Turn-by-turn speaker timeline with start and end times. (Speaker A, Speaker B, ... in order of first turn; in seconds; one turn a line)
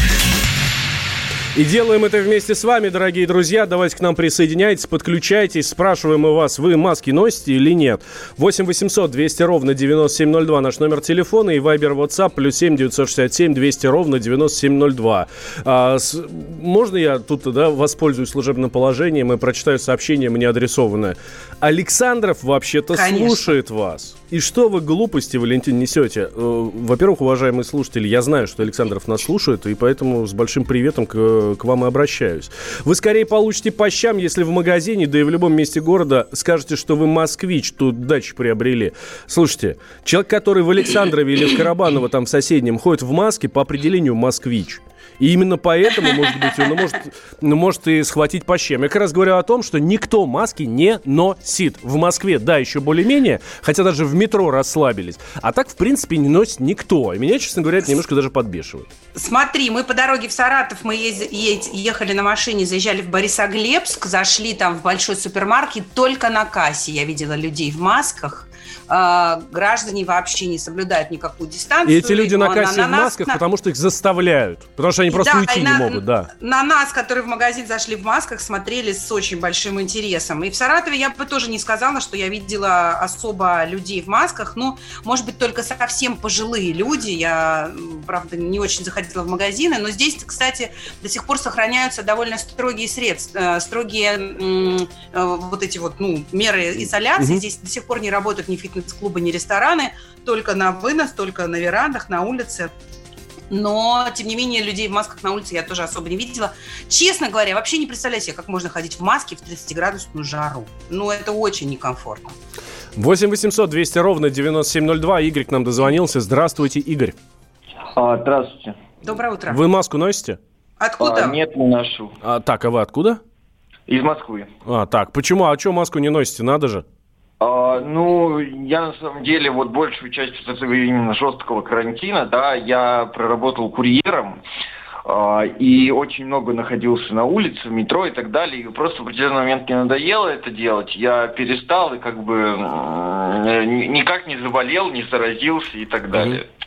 Speaker A: 1.5-58.9
Speaker B: 22.9-23.5
Speaker B: 59.1-73.4
Speaker A: 71.8-76.3
Speaker B: 75.1-102.7
Speaker A: 97.2-97.4
Speaker B: 103.5-112.3
Speaker A: 113.0-117.2
Speaker C: 117.9-118.8
Speaker B: 119.0-119.6
Speaker A: 119.5-120.4
Speaker B: 120.8-121.4
Speaker C: 121.0-122.1
Speaker A: 122.2-123.2
Speaker C: 123.9-124.5
Speaker A: 124.7-126.8
Speaker C: 127.4-134.4
Speaker C: 135.0-146.4
Speaker A: 146.1-146.4